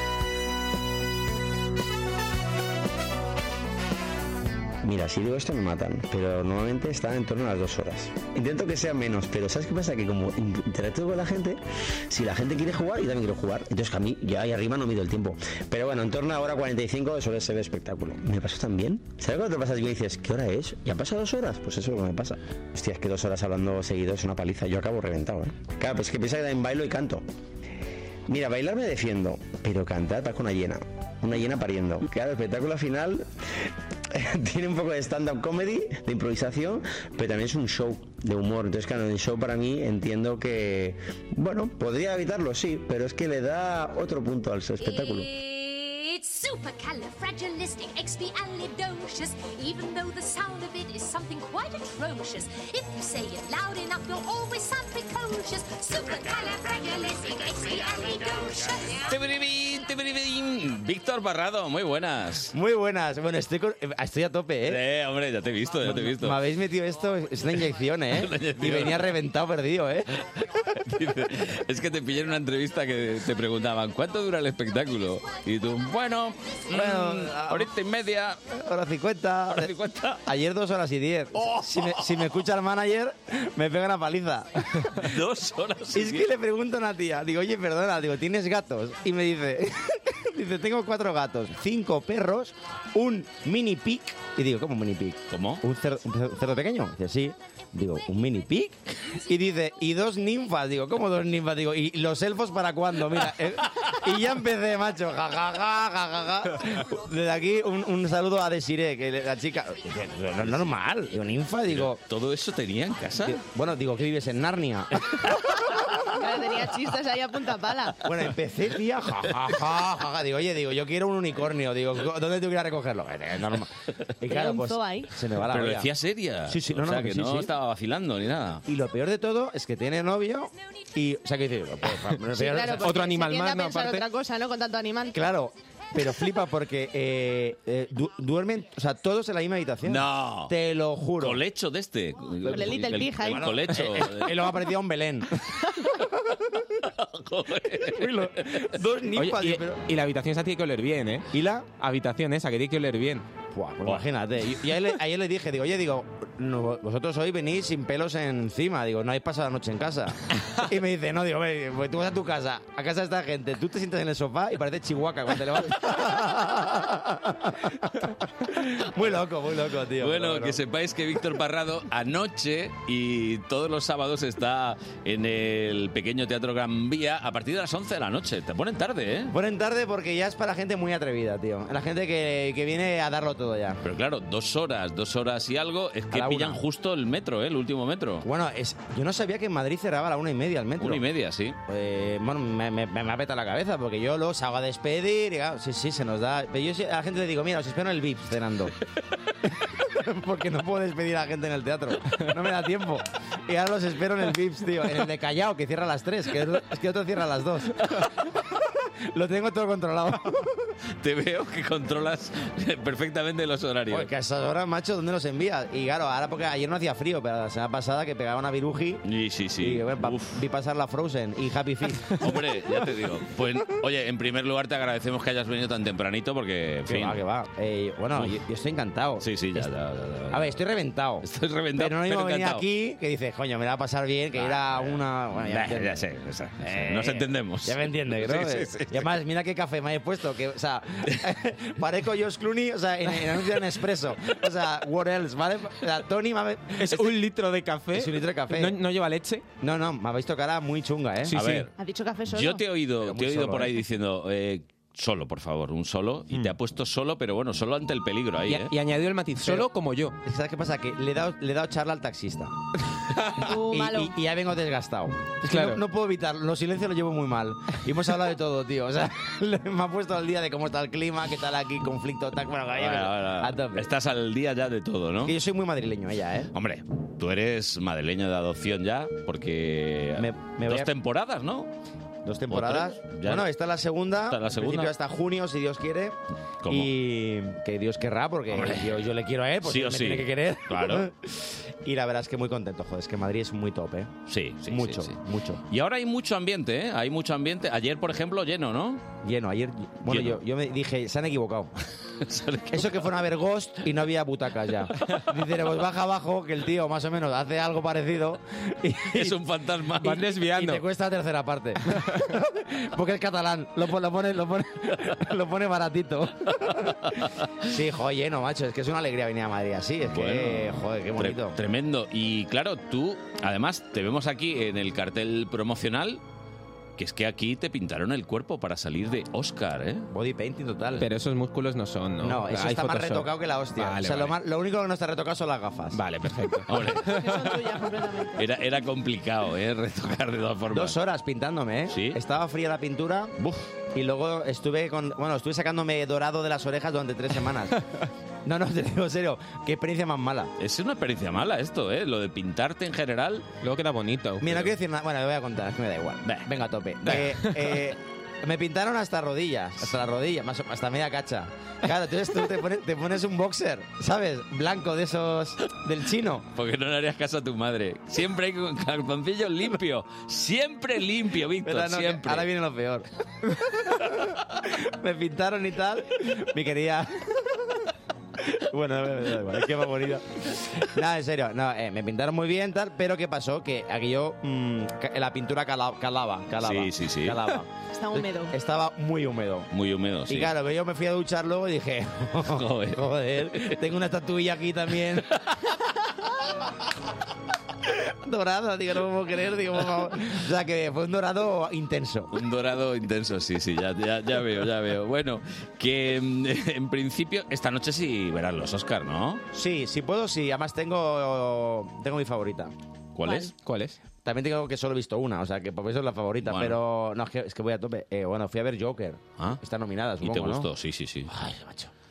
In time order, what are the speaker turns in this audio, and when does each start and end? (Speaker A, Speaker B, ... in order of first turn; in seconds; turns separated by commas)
Speaker A: 4.8-27.2, Speaker A: 28.3-33.3, Speaker A: 34.1-45.3, Speaker B: 44.8-59.1, Speaker C: 59.1-62.5, Speaker D: 62.5-64.8, Speaker C: 64.6-66.4, Speaker D: 65.9-70.1, Speaker C: 68.1-69.1, Speaker C: 70.7-78.4, Speaker D: 76.7-77.7, Speaker D: 78.5-79.7, Speaker C: 79.5-80.2, Speaker D: 80.2-84.9, Speaker C: 81.4-82.0, Speaker C: 84.9-86.3, Speaker D: 85.9-112.0, Speaker C: 95.3-95.6, Speaker C: 111.7-113.4, Speaker D: 113.2-115.0, Speaker E: 116.1-118.0, Speaker D: 118.0-123.7, Speaker D: 124.2-125.9, Speaker E: 124.3-125.1, Speaker C: 125.4-128.6, Speaker D: 126.5-127.5, Speaker D: 128.7-132.8, Speaker E: 132.3-135.3, Speaker F: 132.7-134.0, Speaker D: 135.1-141.4, Speaker C: 139.8-140.5, Speaker C: 141.2-144.5, Speaker E: 142.4-143.5, Speaker D: 143.3-145.3, Speaker C: 146.8-148.7, Speaker F: 148.0-148.3, Speaker D: 148.1-149.8, Speaker F: 149.1-153.2, Speaker D: 151.3-151.7, Speaker D: 153.5-170.6, Speaker C: 170.0-179.3, Speaker D: 179.3-183.8, Speaker C: 183.8-188.3, Speaker D: 186.1-186.6, Speaker D: 188.2-191.0, Speaker C: 190.8-191.6, Speaker D: 191.7-198.7, Speaker D: 199.8-207.9, Speaker D: 209.1-210.5, Speaker C: 211.0-214.1, Speaker D: 213.9-219.0, Speaker C: 219.0-220.4, Speaker D: 219.6-222.1, Speaker C: 222.1-227.2, Speaker D: 226.9-229.2, Speaker C: 228.1-228.4, Speaker C: 229.2-230.6, Speaker D: 230.3-231.2, Speaker C: 231.2-232.7, Speaker D: 231.8-236.0, Speaker C: 234.3-239.1, Speaker D: 236.6-247.2, Speaker F: 246.8-249.5, Speaker D: 247.9-248.8, Speaker D: 249.6-251.4, Speaker F: 251.2-251.7, Speaker C: 251.3-251.7, Speaker E: 251.8-252.6, Speaker C: 252.3-258.7, Speaker D: 253.0-253.7, Speaker F: 258.5-260.2, Speaker D: 259.4-259.7, Speaker D: 260.2-262.5, Speaker F: 263.1-263.4, Speaker E: 263.4-264.2, Speaker D: 263.7-273.9, Speaker F: 265.4-265.8, Speaker C: 272.7-275.3, Speaker D: 275.2-276.5, Speaker C: 276.5-281.7, Speaker D: 280.2-280.9, Speaker D: 282.2-286.2, Speaker C: 282.5-283.5, Speaker C: 284.2-284.9, Speaker C: 286.6-286.9, Speaker D: 286.7-294.1, Speaker C: 288.5-289.1, Speaker C: 289.6-291.1, Speaker C: 294.3-299.1, Speaker D: 294.7-295.6, Speaker D: 299.2-301.7, Speaker C: 300.1-300.4, Speaker C: 302.2-303.1, Speaker D: 302.7-309.4, Speaker C: 309.1-310.3, Speaker F: 310.0-310.8, Speaker D: 310.4-316.9, Speaker F: 311.9-312.2, Speaker C: 316.5-317.4, Speaker D: 317.7-321.6, Speaker C: 320.0-326.2, Speaker C: 327.0-330.1, Speaker D: 330.1-331.1, Speaker F: 331.0-334.3, Speaker D: 332.2-336.0, Speaker F: 335.9-337.5, Speaker C: 336.6-337.2, Speaker E: 337.0-338.4, Speaker C: 338.4-341.0, Speaker D: 340.7-343.3, Speaker C: 341.9-342.2, Speaker C: 343.4-343.7, Speaker D: 343.9-347.8, Speaker D: 348.4-350.5, Speaker C: 350.6-353.5, Speaker F: 353.6-354.4, Speaker D: 354.4-366.4, Speaker C: 354.4-354.7, Speaker C: 356.2-356.5, Speaker C: 357.0-357.5, Speaker F: 357.2-357.6, Speaker C: 366.5-372.5, Speaker D: 371.6-373.5, Speaker D: 374.1-377.3, Speaker D: 378.4-387.7, Speaker C: 386.6-387.5, Speaker E: 387.9-388.6, Speaker D: 388.5-389.7, Speaker C: 389.7-390.5, Speaker D: 390.3-395.3, Speaker C: 392.4-393.8, Speaker D: 398.2-402.3, Speaker C: 402.3-409.4, Speaker D: 409.5-412.7, Speaker C: 413.1-413.5, Speaker E: 413.2-413.5, Speaker F: 413.6-414.0, Speaker D: 414.2-420.7, Speaker C: 416.4-416.8, Speaker C: 420.2-421.3, Speaker D: 421.3-421.9